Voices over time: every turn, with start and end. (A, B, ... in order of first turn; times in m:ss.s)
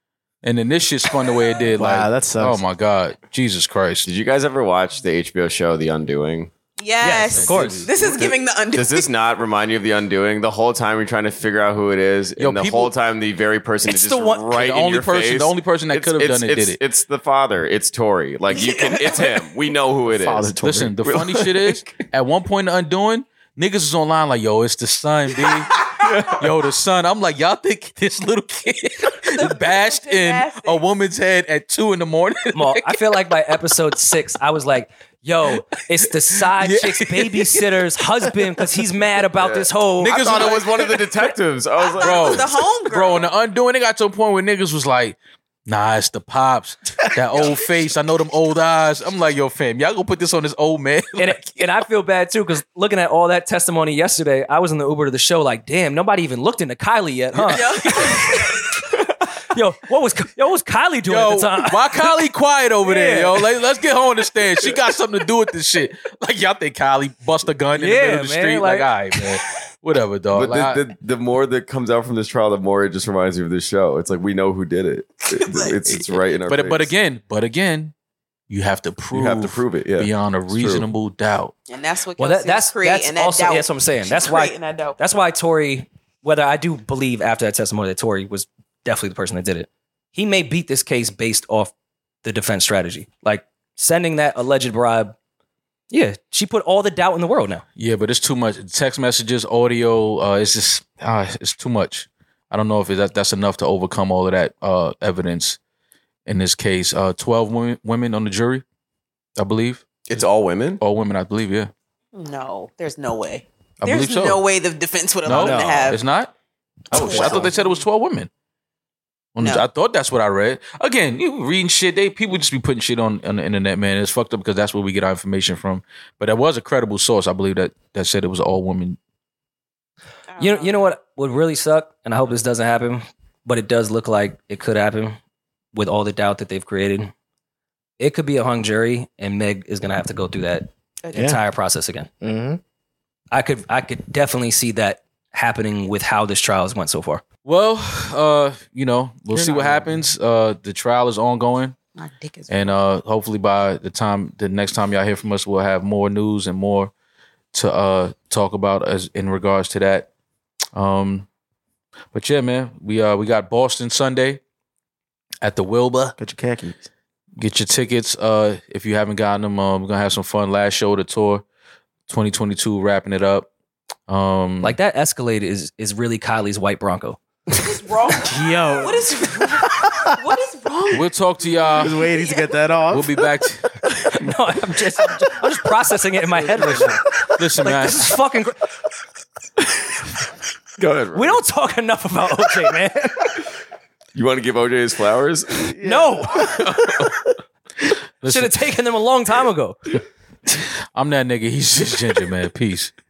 0:00.4-0:04.1 A
0:01.8-0:02.6 B
0:04.0-0:06.5 C
0:06.8-0:09.1 D
0:07.0-0:07.9 E
0:07.3-0:08.2 A
0:08.7-0:20.5 C
0:12.4-0:12.9 A
0:13.9-0:16.8 A
0:20.1-0:21.2 B
0:20.6-0:33.2 A
0:21.0-0:21.9 C
0:25.9-0:26.4 C
0:29.3-0:30.8 D
0:32.5-0:40.2 E
0:36.5-0:38.4 A
0:39.4-0:42.6 C
0:40.0-0:41.3 A
0:41.8-0:43.3 D
0:42.0-0:51.6 A
0:51.2-1:02.2 E
0:57.4-0:58.2 A
0:57.5-0:58.4 D
1:01.1-1:10.8 A
1:02.8-1:03.4 E
1:07.7-1:09.4 E
1:10.3-1:16.9 C
1:15.4-1:15.8 D
1:16.5-1:17.9 A
1:18.5-1:21.5 A
1:19.1-1:20.9 C
1:21.7-1:25.0 D
1:22.2-1:35.2 E
1:35.9-1:37.6 E
1:37.8-1:45.6 A
1:46.3-1:48.6 A
1:49.4-1:50.2 A
1:50.1-1:50.8 C
1:50.8-1:51.7 A
1:52.1-1:56.0 D
1:53.8-1:54.4 A
1:55.2-1:56.3 A
1:55.4-1:55.9 B
1:56.9-1:58.3 A
1:56.9-1:57.5 C
1:56.9-1:57.5 B
1:56.9-1:57.8 D
1:59.4-2:09.0 A
1:59.4-1:59.7 D
2:10.3-2:11.0 D
2:10.4-2:15.2 E
2:15.7-2:17.1 E
2:18.0-2:22.1 E
2:21.1-2:21.4 B
2:22.2-2:22.6 B
2:23.3-2:27.2 E
2:27.4-2:31.8 A
2:29.3-2:30.1 B
2:32.0-2:32.7 D
2:32.5-2:36.9 A
2:37.5-2:40.1 A
2:40.8-2:41.3 A
2:42.1-2:44.4 A
2:45.4-2:46.2 A
2:46.2-2:46.9 B
2:47.4-2:51.4 A
2:52.1-2:53.5 A
2:54.1-2:54.8 A
2:54.6-2:57.2 E
2:57.6-3:01.1 D
2:58.2-3:00.1 B
3:00.9-3:02.1 A
3:01.7-3:04.1 B
3:01.9-3:02.6 D
3:02.9-3:03.8 A
3:04.1-3:07.1 E
3:06.4-3:07.3 B
3:07.4-3:08.1 A
3:07.6-3:08.6 E
3:10.8-3:11.4 C
3:11.2-3:13.4 E
3:14.2-3:15.7 C
3:15.6-3:17.3 B
3:15.8-3:16.6 E
3:16.4-3:17.2 C
3:18.2-3:18.7 A
3:18.2-3:19.9 E
3:20.5-3:22.9 A